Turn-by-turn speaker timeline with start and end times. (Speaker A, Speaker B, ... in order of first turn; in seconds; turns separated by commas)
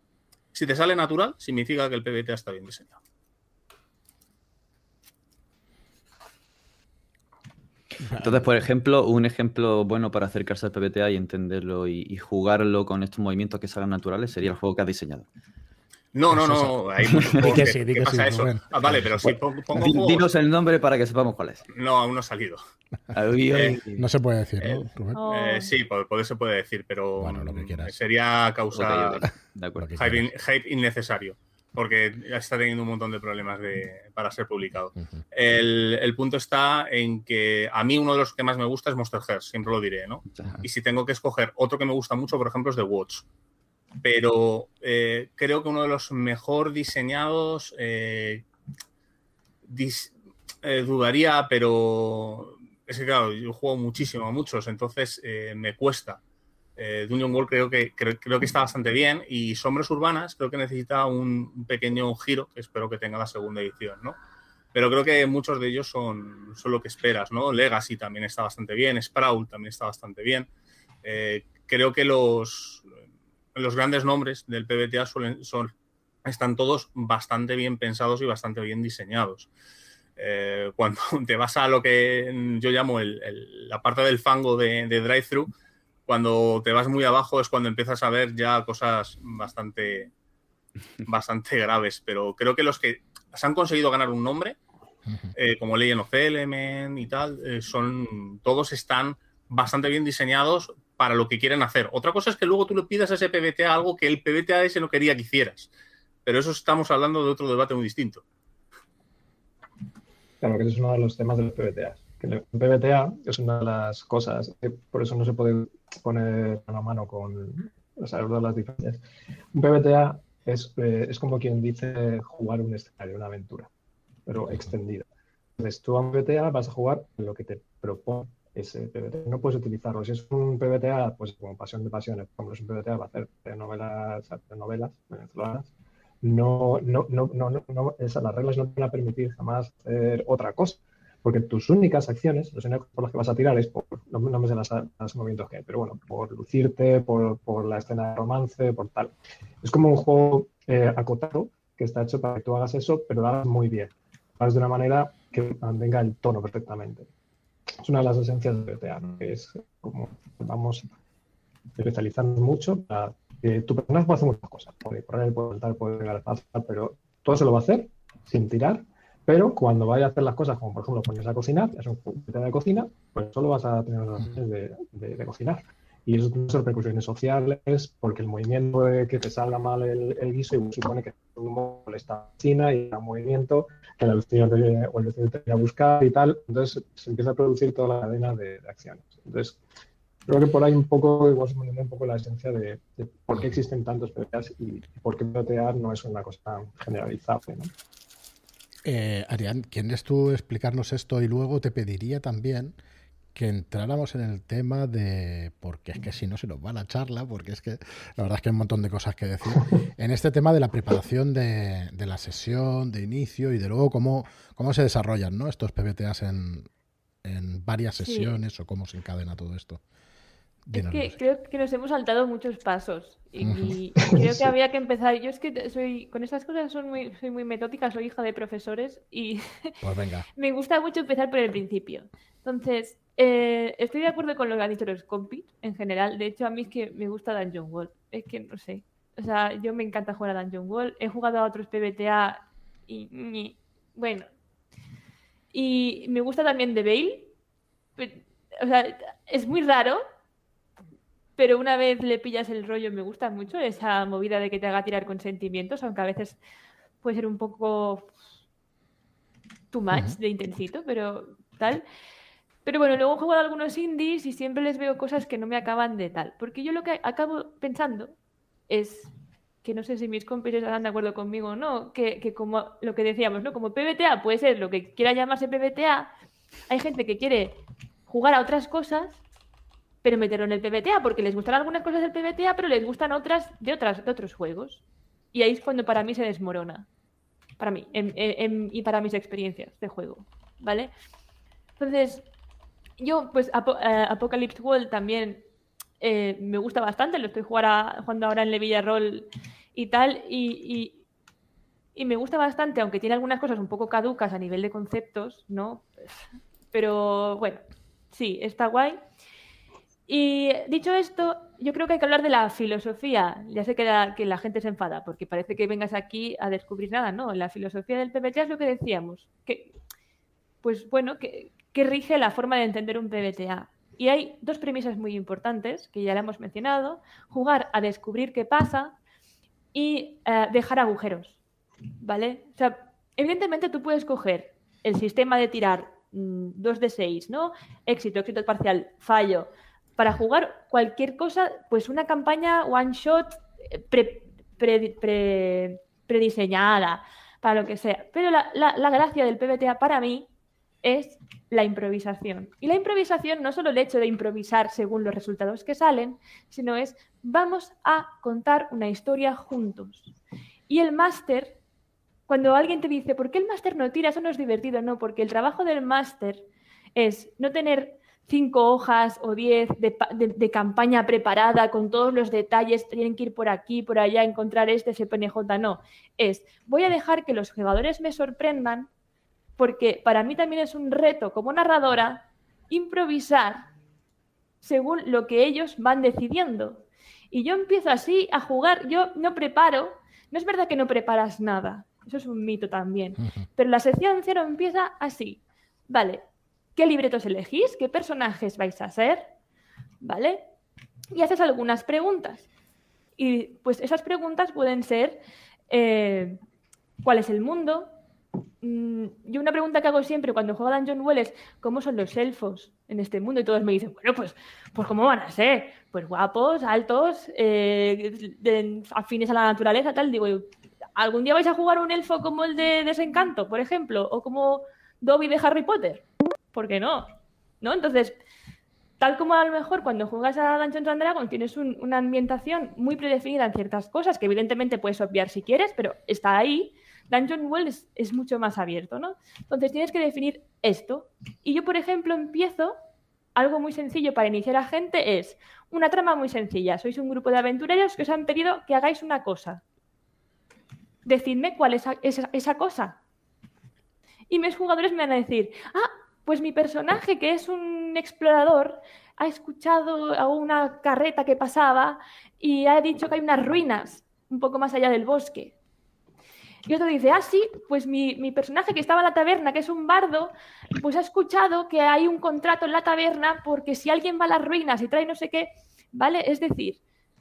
Speaker A: 0.5-2.9, Speaker B: 8.0-8.4, Speaker C: 8.2-15.2, Speaker A: 16.1-20.3, Speaker B: 16.3-19.3, Speaker C: 17.0-17.6, Speaker C: 19.2-21.6, Speaker A: 21.7-22.6, Speaker C: 23.1-24.1, Speaker A: 23.5-23.8, Speaker B: 23.9-25.2, Speaker A: 24.6-29.3, Speaker D: 25.1-25.7, Speaker B: 27.2-27.9, Speaker C: 28.7-30.0, Speaker B: 29.8-30.2, Speaker A: 30.0-43.2, Speaker A: 44.0-48.4, Speaker A: 49.6-50.1, Speaker A: 50.6-56.2, Speaker A: 56.8-64.2, Speaker A: 64.7-70.5, Speaker A: 71.0-72.8, Speaker A: 73.5-75.7, Speaker A: 76.2-79.5, Speaker A: 80.2-85.5, Speaker A: 86.1-90.1, Speaker A: 91.0-94.5, Speaker A: 95.3-105.7, Speaker A: 106.2-108.2, Speaker E: 110.4-119.0, Speaker E: 119.5-123.7, Speaker E: 124.3-125.1, Speaker E: 125.6-135.7, Speaker E: 136.2-157.1, Speaker E: 157.8-160.8, Speaker E: 161.8-189.6, Speaker E: 190.3-197.7, Speaker B: 198.8-202.7, Speaker B: 203.3-216.7, Speaker B: 217.2-219.8, Speaker D: 218.0-218.3, Speaker B: 220.7-221.2, Speaker D: 220.7-229.7, Speaker B: 223.4-223.8, Speaker B: 229.8-230.3, Speaker D: 230.3-244.3, Speaker D: 245.5-247.3, Speaker D: 248.0-250.0, Speaker D: 251.4-256.4, Speaker D: 257.0-258.1, Speaker D: 259.7-261.8, Speaker B: 259.9-260.2, Speaker D: 262.6-268.1, Speaker D: 268.7-269.1, Speaker D: 269.6-276.1, Speaker D: 276.7-279.2, Speaker D: 280.0-284.8, Speaker D: 285.3-286.9, Speaker D: 287.6-290.9, Speaker D: 291.8-292.2, Speaker D: 293.0-295.4, Speaker D: 296.0-301.0, Speaker D: 301.9-309.0, Speaker D: 310.1-319.7, Speaker D: 320.6-328.9, Speaker D: 329.7-331.3, Speaker D: 332.0-350.3, Speaker D: 350.8-360.1, Speaker D: 360.7-361.6, Speaker D: 362.3-366.4, Speaker D: 366.9-378.9, Speaker D: 379.6-383.7, Speaker D: 384.6-396.2, Speaker D: 396.8-399.3, Speaker D: 400.0-400.5, Speaker D: 401.1-402.4, Speaker D: 403.2-406.4, Speaker D: 407.0-407.9, Speaker D: 408.6-428.2, Speaker D: 429.0-442.8, Speaker D: 443.4-449.6, Speaker D: 451.0-453.0, Speaker D: 454.3-465.5, Speaker D: 466.7-476.8